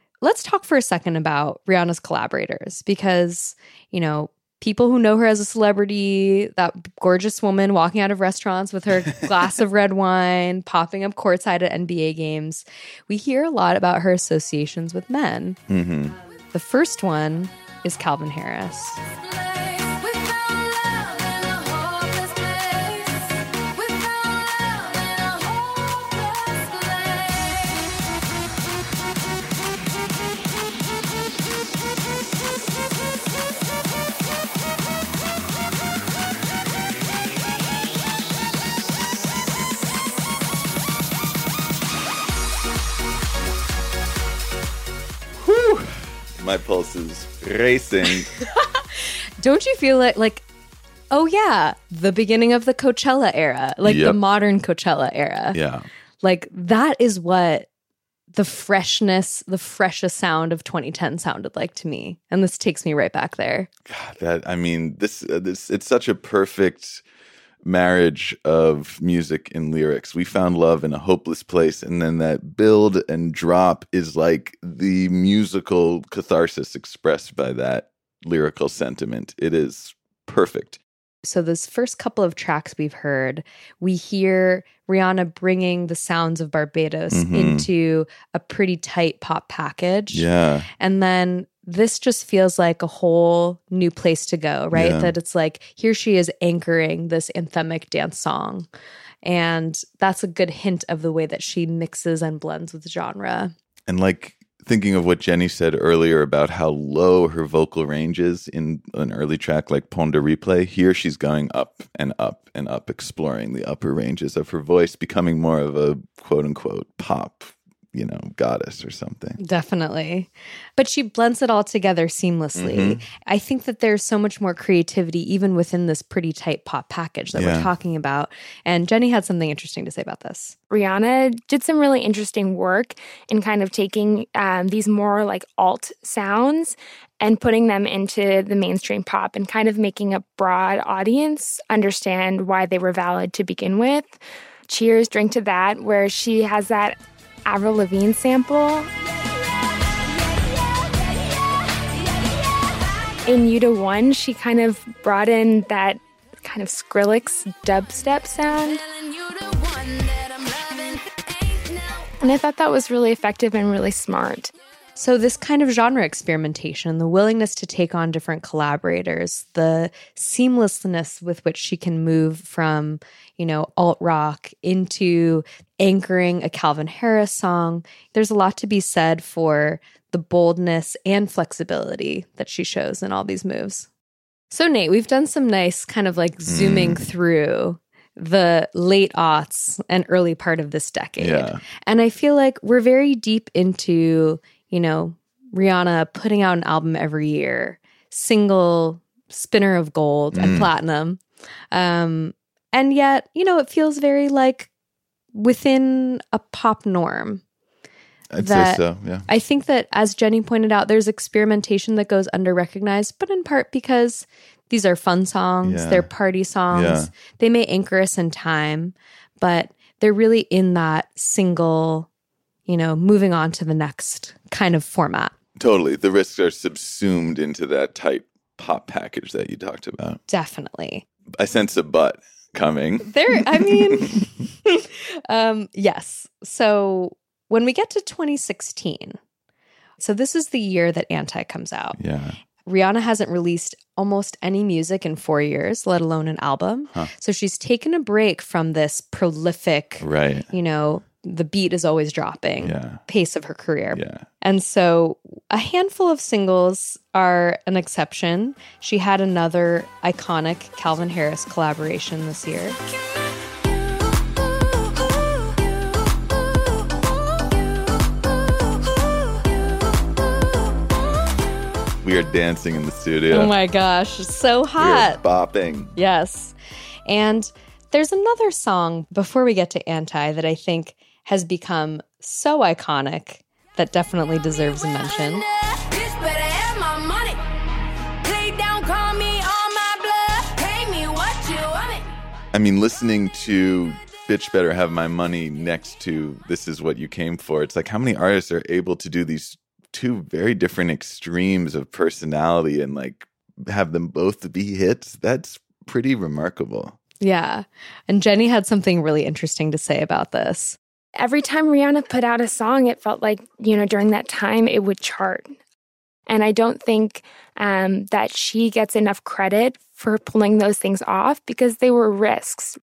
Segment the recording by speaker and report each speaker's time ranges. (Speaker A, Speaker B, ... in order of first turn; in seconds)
Speaker A: 0.2-15.6, 16.5-19.0, 48.9-50.4, 51.1-55.6, 56.2-57.7, 58.3-63.7, 81.2-90.3, 90.8-98.7, 99.2-103.5, 119.4-130.5, 164.9-183.9, 184.5-201.2, 201.7-204.7, 205.3-207.4, 208.4-222.1, 222.7-225.3, 230.3-231.0, 233.0-239.2, 240.0-242.0, 242.6-262.8, 273.3-275.2, 275.9-276.5, 277.1-285.4, 307.2-310.8
Speaker B: 9.0-9.3, 15.7-16.1, 45.4-48.3, 53.8-54.2, 55.5-55.9, 63.9-67.0, 67.6-80.8, 87.1-87.7, 90.1-90.7, 94.7-95.1, 103.9-119.4, 122.5-123.0, 127.3-127.7, 186.4-187.0, 191.2-191.6, 200.3-200.7, 208.3-209.3, 215.6-216.1, 216.7-217.1, 225.6-230.2, 231.4-234.3, 241.9-242.4, 250.0-250.5, 252.6-253.0, 253.9-254.2, 272.0-273.5, 274.8-275.9, 292.5-307.0
Speaker C: 19.1-27.8, 150.0-151.2, 151.8-153.2, 158.7-162.1, 285.3-287.4, 288.2-292.1
Speaker D: 130.7-148.9, 153.3-158.8, 162.2-164.5, 311.1-315.5, 316.3-322.8